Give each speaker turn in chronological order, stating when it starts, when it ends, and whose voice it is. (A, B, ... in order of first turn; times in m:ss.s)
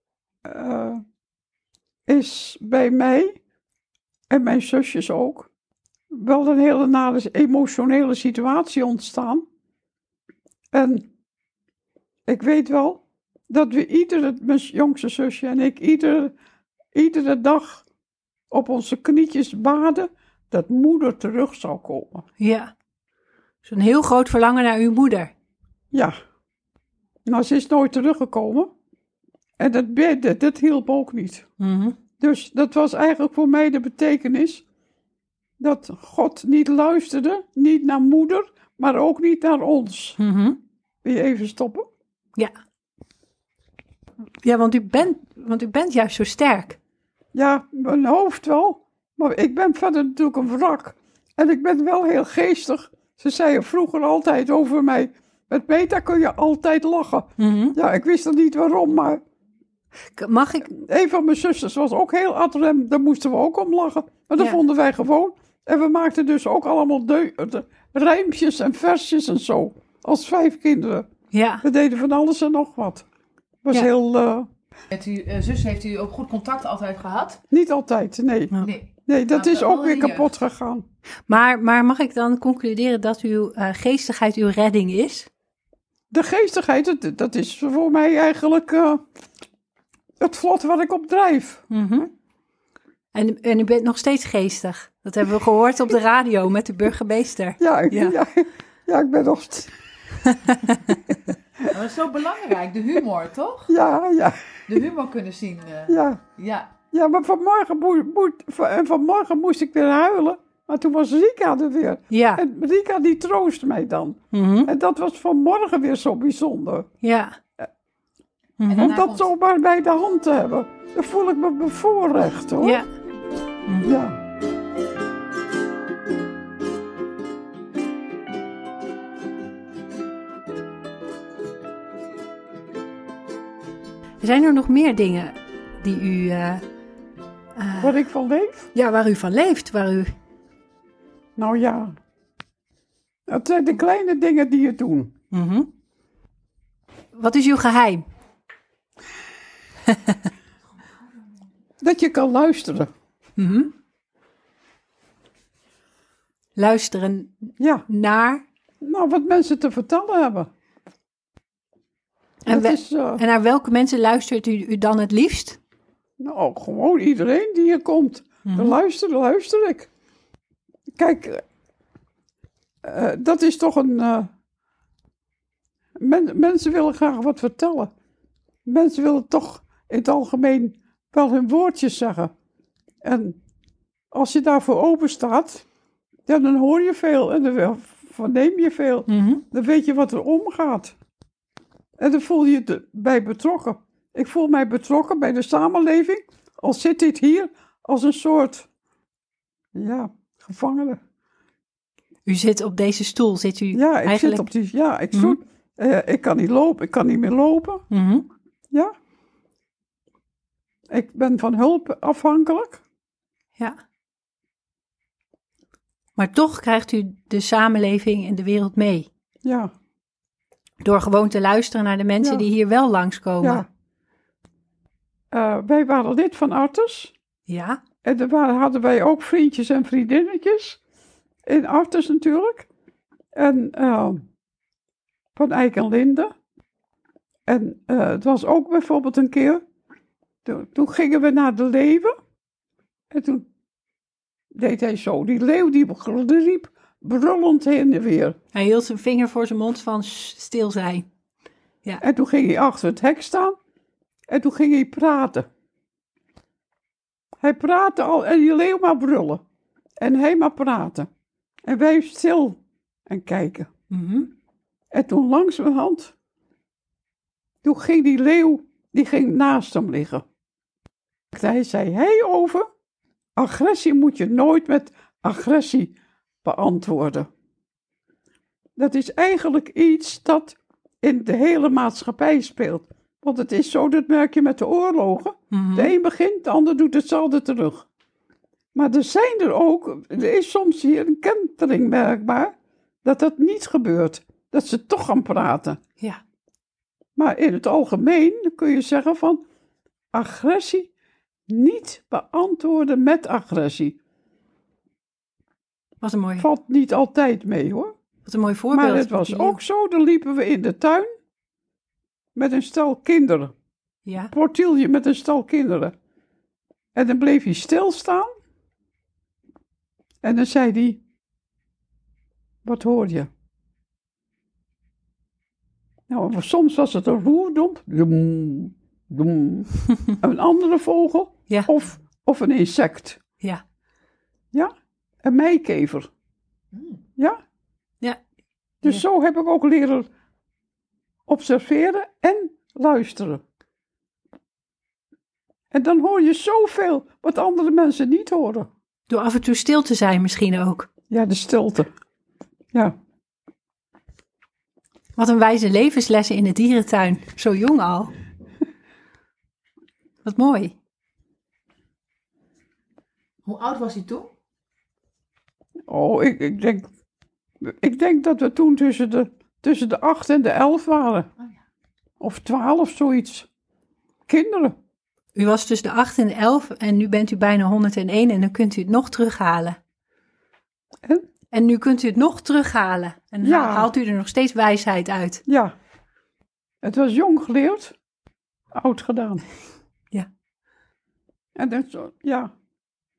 0:00.4-0:01.0 A
0:02.1-0:03.4 A
0:04.3-0:05.5 A
0:06.1-0:09.4 A
0:10.7-0:11.1 A
0:12.3-0:16.3 A
0:16.9-0:17.8 A
0:18.5-0:22.2 A
0:22.4-0:22.7 B
0:23.6-0:25.3 B
0:27.2-0:28.7 A
0:29.6-0:31.5 A
0:31.6-0:32.0 B
0:32.2-0:34.6 A
0:35.6-0:40.2 A
0:40.2-0:40.6 B
0:41.0-0:41.8 A
0:44.4-0:46.8 B
0:47.3-0:59.2 A
0:57.4-0:57.8 B
1:00.2-1:00.7 B
1:00.6-1:11.1 A
1:11.3-1:11.6 B
1:11.6-1:13.0 A
1:13.6-1:14.5 A
1:14.9-1:17.4 C
1:17.5-1:20.8 A
1:18.6-1:20.3 C
1:21.3-1:25.3 B
1:26.1-1:29.0 A
1:30.2-1:31.6 A
1:31.7-1:32.1 B
1:33.1-1:38.2 B
1:37.6-1:39.7 A
1:40.5-1:40.9 B
1:41.7-1:43.7 C
1:43.7-1:44.3 A
1:44.7-1:46.8 C
1:45.9-1:46.2 A
1:46.9-1:56.9 A
1:52.1-1:52.4 B
1:54.3-1:54.7 B
1:57.0-1:57.3 B
1:58.6-1:58.9 B
1:58.7-1:59.3 C
1:58.8-2:02.8 A
2:02.6-2:02.9 B
2:03.6-2:04.0 B
2:03.8-2:04.2 A
2:14.2-2:16.6 B
2:17.6-2:18.0 B
2:17.8-2:18.7 A
2:18.7-2:20.1 B
2:21.4-2:22.0 A
2:23.3-2:25.1 A
2:25.3-2:25.7 B
2:27.1-2:28.0 B
2:31.8-2:32.9 A
2:33.4-2:33.7 B
2:36.5-2:38.4 B
2:37.6-2:37.9 A
2:38.8-2:40.5 A
2:42.4-2:45.6 B
2:42.5-2:43.2 A
2:46.2-2:49.9 A
2:48.4-2:48.8 B
2:51.0-2:51.4 A
2:52.8-2:54.3 A
2:56.0-2:57.9 A
2:58.6-3:02.3 A
3:03.0-3:03.4 A
3:04.1-3:05.6 A
3:06.3-3:10.9 A
3:09.1-3:09.4 B
3:12.0-3:18.7 A
3:19.7-3:21.0 A
3:22.2-3:24.5 B
3:23.7-3:27.8 A
3:25.1-3:25.4 B
3:27.9-3:28.3 B
3:30.9-3:32.8 A
3:36.2-3:39.1 B
3:39.4-3:39.7 A
3:40.8-3:43.6 B
3:42.2-3:42.5 A
3:43.4-3:43.7 A
3:45.3-3:47.1 A
3:47.5-3:47.8 B
3:48.0-3:50.8 A
3:51.4-3:52.7 A
3:53.3-3:54.2 A
3:55.4-3:56.3 A
3:57.5-3:59.6 A
4:00.4-4:02.1 A
4:03.1-4:03.5 A
4:04.5-4:08.4 A
4:08.5-4:11.1 B
4:12.0-4:13.6 A
4:14.3-4:15.5 A
4:17.4-4:19.4 A
4:20.0-4:21.1 A
4:21.7-4:23.7 A
4:23.9-4:24.3 B
4:24.9-4:26.1 A
4:27.6-4:30.2 A
4:31.3-4:32.7 A
4:33.4-4:37.3 A
4:38.8-4:47.9 A
4:45.5-4:45.9 B
4:48.7-4:52.5 A
4:53.0-4:55.8 A
4:57.2-4:59.4 A
5:00.1-5:00.9 A
5:01.5-5:04.0 A
5:06.0-5:06.5 B
5:06.4-5:07.9 A
5:08.2-5:09.6 B
5:08.7-5:11.1 A
5:12.4-5:13.5 A
5:14.0-5:14.3 B
5:14.3-5:15.9 A
5:16.9-5:18.3 A
5:20.2-5:21.0 A
5:22.6-5:23.3 A
5:26.1-5:33.2 A
5:35.2-5:36.1 A
5:36.7-5:37.0 C
5:38.8-5:40.1 A
5:41.3-5:43.4 A
5:45.7-5:48.7 A
5:49.1-5:50.9 B
5:51.1-5:51.9 A
5:55.2-5:58.1 B
6:00.2-6:00.8 B
6:03.4-6:04.3 C
6:05.9-6:06.9 A
6:07.6-6:11.3 A
6:12.2-6:13.5 A
6:14.3-6:14.7 A
6:15.3-6:19.8 B
6:21.5-6:25.4 B
6:23.4-6:23.9 A
6:25.5-6:25.7 A
6:26.8-6:27.9 A
6:28.7-6:29.4 A
6:31.6-6:32.5 A